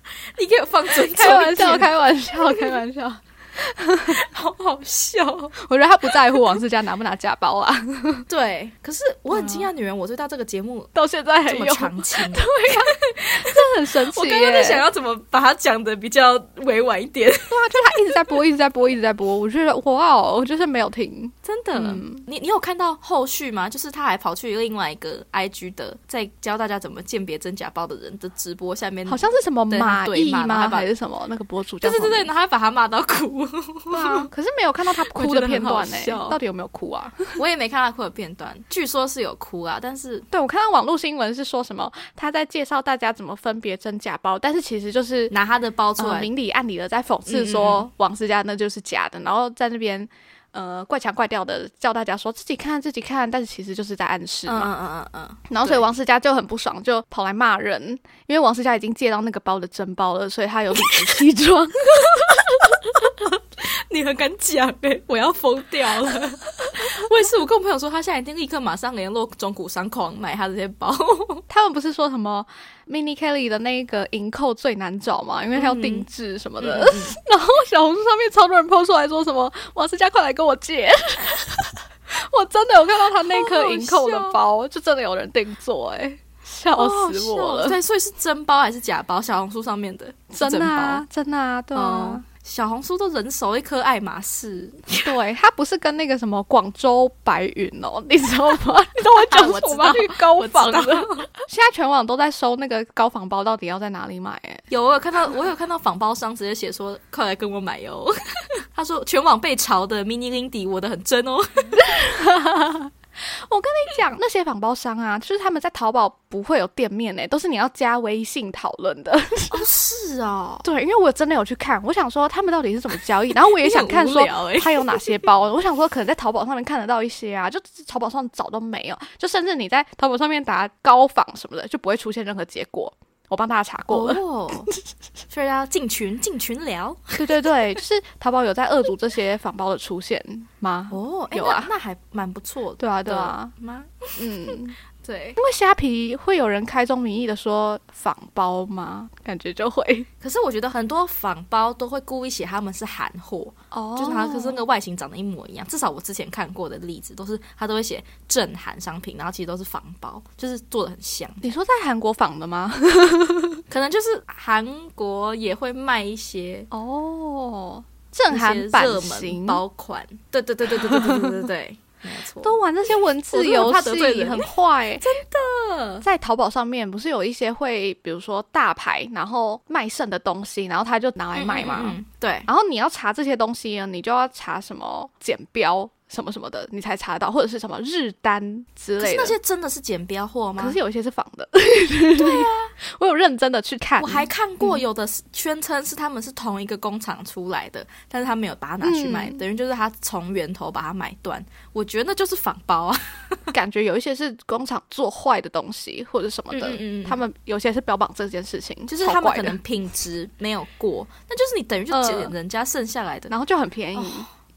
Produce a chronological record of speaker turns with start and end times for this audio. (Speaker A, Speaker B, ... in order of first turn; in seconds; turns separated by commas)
Speaker A: 0.3-1.9, Speaker B: 1.0-4.2, Speaker A: 4.1-5.5, Speaker B: 5.6-8.2, Speaker A: 6.1-6.5, Speaker A: 8.3-10.9, Speaker B: 9.3-9.7, Speaker B: 10.9-14.8, Speaker A: 11.4-18.1, Speaker B: 17.5-22.2, Speaker A: 21.4-30.9, Speaker B: 29.1-32.3, Speaker A: 31.8-34.3, Speaker B: 33.9-37.4, Speaker A: 35.0-36.4, Speaker A: 37.4-40.3, Speaker B: 40.3-45.3, Speaker A: 45.3-46.3, Speaker B: 46.0-54.7, Speaker A: 47.2-47.9, Speaker A: 54.5-55.8, Speaker B: 55.5-62.4, Speaker A: 60.8-61.1, Speaker A: 62.2-71.4, Speaker B: 71.5-87.8, Speaker A: 75.5-76.1, Speaker A: 76.6-77.2, Speaker A: 83.3-84.4, Speaker A: 86.7-91.0, Speaker B: 90.3-92.2, Speaker A: 91.7-95.1, Speaker B: 95.0-104.6, Speaker A: 99.0-101.3, Speaker A: 104.7-111.8, Speaker B: 111.8-119.6, Speaker A: 119.5-120.6, Speaker B: 120.6-134.2, Speaker A: 123.5-125.0, Speaker A: 133.9-134.7, Speaker A: 135.3-137.2, Speaker B: 137.2-141.7, Speaker A: 140.9-145.4, Speaker B: 142.8-143.5, Speaker B: 144.2-144.8, Speaker B: 145.4-150.1, Speaker A: 150.2-161.4, Speaker B: 153.7-154.6, Speaker B: 161.4-163.6, Speaker A: 163.7-166.7, Speaker B: 166.7-169.6, Speaker A: 168.3-172.6, Speaker B: 170.8-171.4, Speaker B: 172.4-175.1, Speaker A: 173.3-174.5, Speaker A: 175.0-176.0, Speaker B: 176.0-189.3, Speaker A: 181.3-182.5, Speaker A: 189.0-190.8, Speaker B: 190.6-194.8, Speaker A: 192.2-192.7, Speaker A: 194.0-203.5, Speaker B: 198.8-199.4, Speaker B: 203.5-209.6, Speaker A: 206.5-207.2, Speaker A: 208.9-213.3, Speaker B: 211.9-212.3, Speaker B: 213.3-214.3, Speaker A: 214.0-214.2